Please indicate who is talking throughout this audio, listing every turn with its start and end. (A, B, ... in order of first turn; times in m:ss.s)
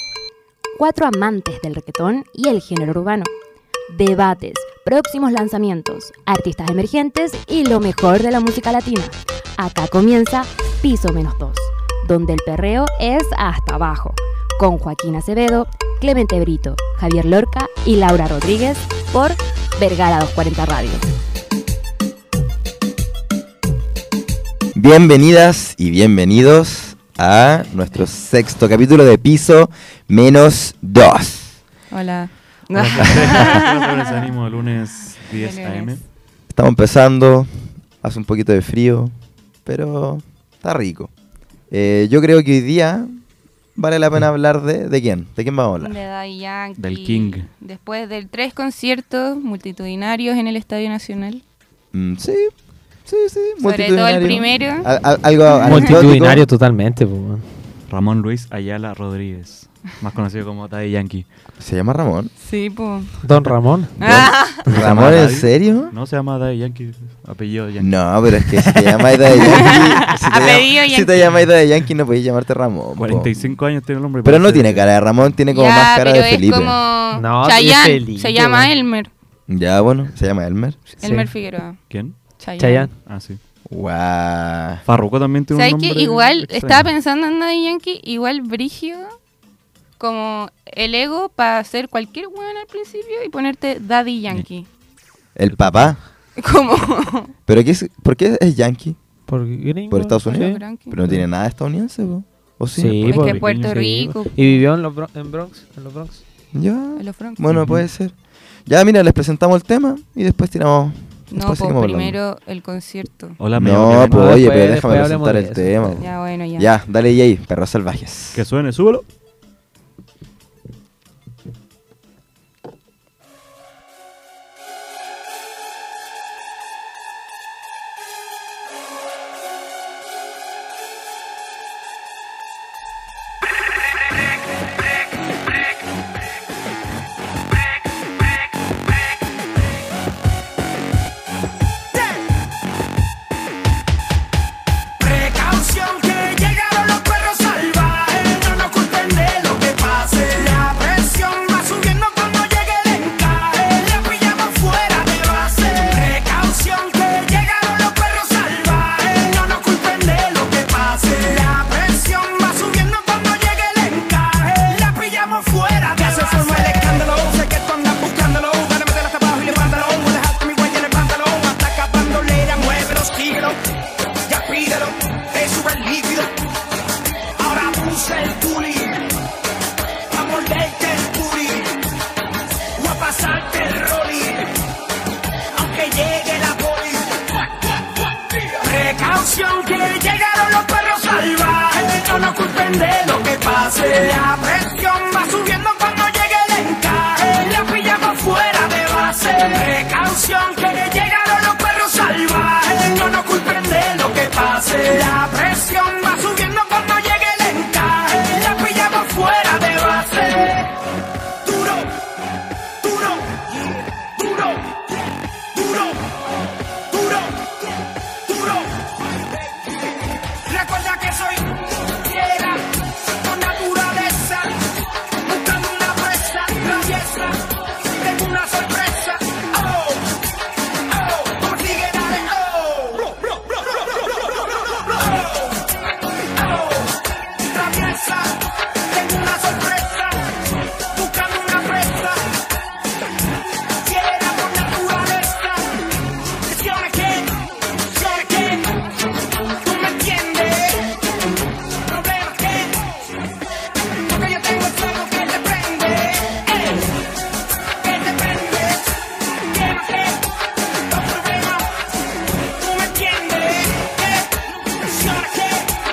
0:00.8-0:03.3 A
0:03.9-0:21.1 A
0:24.7-0:31.6 B
0:31.9-0:34.3 C
0:32.7-0:36.0 D
0:33.0-0:33.5 B
0:35.2-0:36.0 C
0:36.5-0:39.1 B
0:39.6-0:41.1 B
0:41.7-0:43.2 B
0:43.7-0:46.0 B
0:45.8-0:51.4 C
0:46.8-0:47.5 D
0:51.9-0:52.5 B
0:53.0-0:56.5 B
0:53.6-0:54.9 C
0:55.5-0:55.8 C
0:55.6-0:57.6 E
0:57.9-1:01.2 D
1:01.6-1:02.3 B
1:02.4-1:03.2 C
1:03.2-1:04.0 E
1:04.0-1:04.7 C
1:04.0-1:05.9 B
1:04.6-1:08.6 D
1:07.8-1:13.3 B
1:09.4-1:11.4 C
1:13.0-1:14.9 D
1:14.2-1:16.8 B
1:15.5-1:19.1 C
1:17.1-1:18.7 E
1:19.5-1:20.9 B
1:21.0-1:21.3 E
1:21.0-1:22.9 C
1:21.9-1:22.2 D
1:22.6-1:22.9 E
1:23.0-1:23.4 D
1:23.6-1:24.8 B
1:24.8-1:26.9 D
1:25.5-1:29.2 C
1:30.0-1:34.7 C
1:35.4-1:36.0 B
1:35.5-1:36.0 D
1:36.4-1:37.3 C
1:37.5-1:39.0 B
1:39.3-1:41.2 E
1:39.9-1:43.3 B
1:40.3-1:41.0 C
1:42.8-1:46.2 E
1:43.0-1:44.6 C
1:43.1-1:43.8 D
1:46.5-1:52.2 B
1:47.0-1:47.4 C
1:47.5-1:47.8 D
1:51.3-1:53.4 C
1:53.4-1:54.4 D
1:53.5-1:58.4 B
1:53.9-1:56.0 E
1:56.0-1:56.7 C
1:58.3-1:59.0 D
2:25.0-2:53.6 F
2:54.3-2:56.3 F
2:57.4-2:59.1 F
3:00.1-3:01.8 F
3:02.8-3:04.5 F
3:05.5-3:30.8 F
3:31.4-3:32.0 F
3:32.8-3:36.1 F
3:36.9-3:37.6 F
3:38.1-3:38.9 F
3:40.3-3:50.1 F
3:50.9-3:55.6 F
3:56.3-4:00.3 F
4:00.9-4:02.4 F
4:03.8-4:08.9 F
4:09.5-4:11.0 F
4:11.8-4:13.1 F
4:13.9-4:16.9 F
4:17.8-4:20.2 F
4:20.8-4:21.8 F
4:22.4-4:25.8 F